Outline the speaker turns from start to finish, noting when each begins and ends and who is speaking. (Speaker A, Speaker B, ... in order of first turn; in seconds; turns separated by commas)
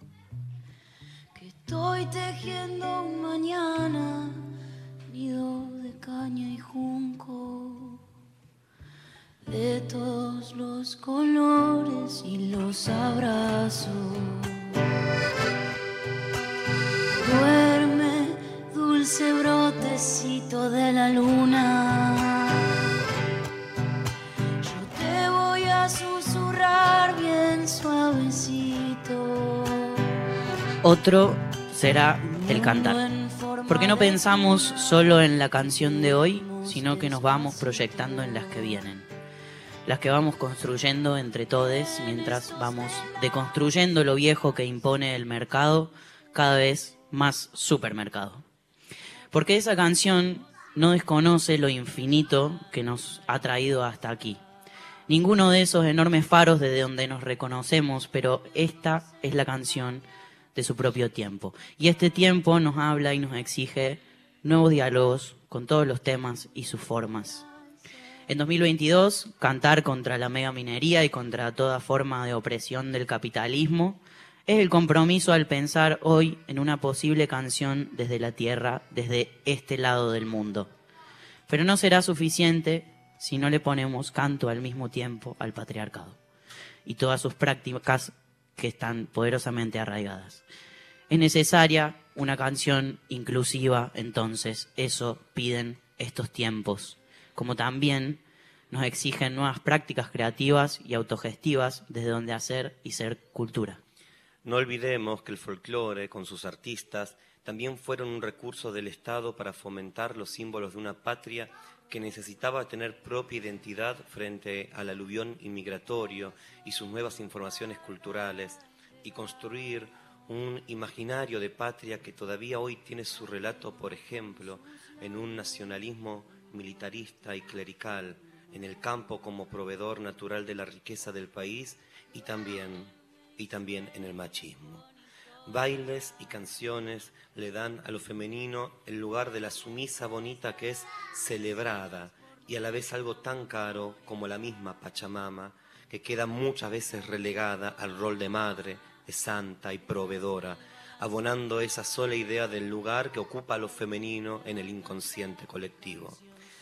Speaker A: 1.3-4.5, Speaker A: 5.1-8.0, Speaker A: 9.4-14.7, Speaker A: 17.1-22.8, Speaker A: 24.6-30.1, Speaker B: 30.8-33.0, Speaker A: 32.2-35.0, Speaker B: 33.7-39.1, Speaker A: 36.0-38.5, Speaker B: 39.9-48.4, Speaker A: 41.8-43.1, Speaker B: 49.3-54.4, Speaker B: 55.1-67.5, Speaker B: 68.3-80.7, Speaker B: 81.5-86.2, Speaker B: 86.9-90.4, Speaker B: 91.1-103.8, Speaker C: 104.4-134.8, Speaker C: 135.5-156.2